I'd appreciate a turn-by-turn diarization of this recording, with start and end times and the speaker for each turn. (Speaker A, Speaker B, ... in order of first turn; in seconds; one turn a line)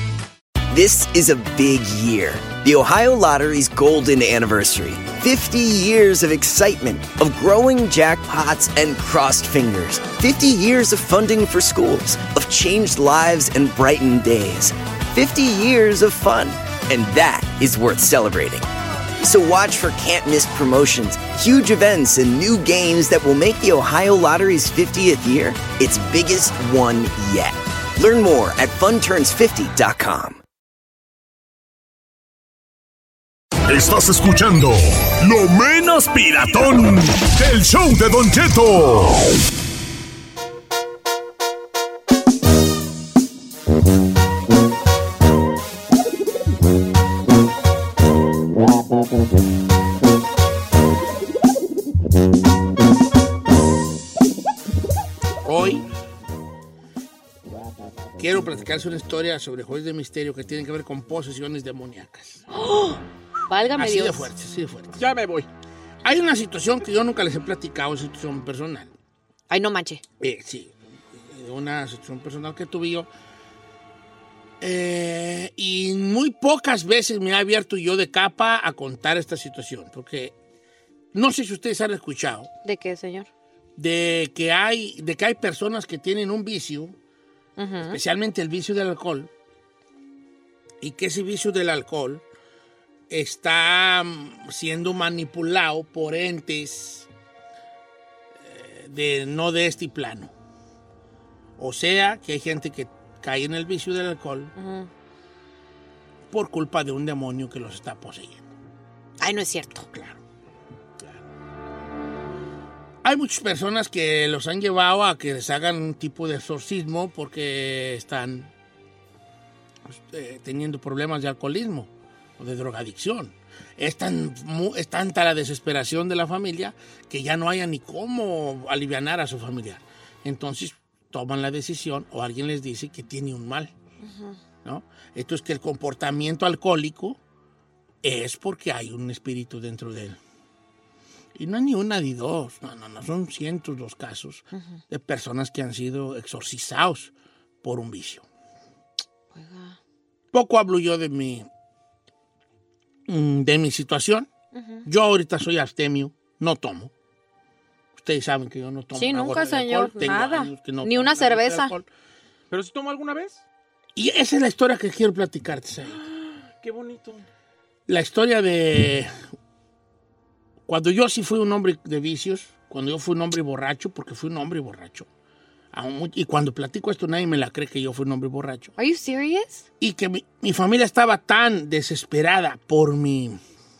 Speaker A: 0.7-18.6
Speaker A: 19.2-30.4
Speaker B: 33.7-39.2
Speaker C: 55.5-55.8
Speaker C: 58.2-62.4
Speaker D: 62.5-63.0
Speaker D: 63.5-64.3
Speaker C: 63.8-65.0
Speaker E: 64.9-65.5
Speaker C: 66.0-68.9
Speaker D: 69.5-70.0
Speaker C: 70.2-73.1
Speaker C: 74.6-80.3
Speaker C: 81.1-82.5
Speaker D: 82.6-83.3
Speaker C: 83.8-86.9
Speaker D: 87.6-88.0
Speaker C: 87.8-89.3
Speaker C: 90.8-92.2
Speaker C: 93.1-97.0
Speaker C: 98.4-100.3
Speaker C: 101.6-104.5
Speaker D: 104.6-104.9
Speaker C: 106.3-108.5
Speaker D: 109.2-109.8
Speaker C: 109.9-110.2
Speaker C: 113.0-118.5
Speaker C: 119.9-133.7
Speaker D: 134.0-134.4
Speaker C: 134.6-137.2
Speaker C: 138.0-140.2
Speaker C: 141.3-147.1
Speaker C: 147.6-148.2
Speaker D: 149.3-149.8
Speaker C: 150.3-151.4
Speaker C: 153.1-154.3
Speaker D: 154.5-154.8
Speaker C: 154.8-156.9
Speaker C: 157.9-161.8
Speaker D: 158.9-161.7
Speaker E: 162.5-163.4
Speaker C: 163.9-166.0
Speaker E: 166.0-167.2
Speaker C: 167.9-169.1
Speaker C: 170.7-175.1
Speaker C: 175.7-178.7
Speaker D: 178.8-179.6
Speaker C: 179.8-183.4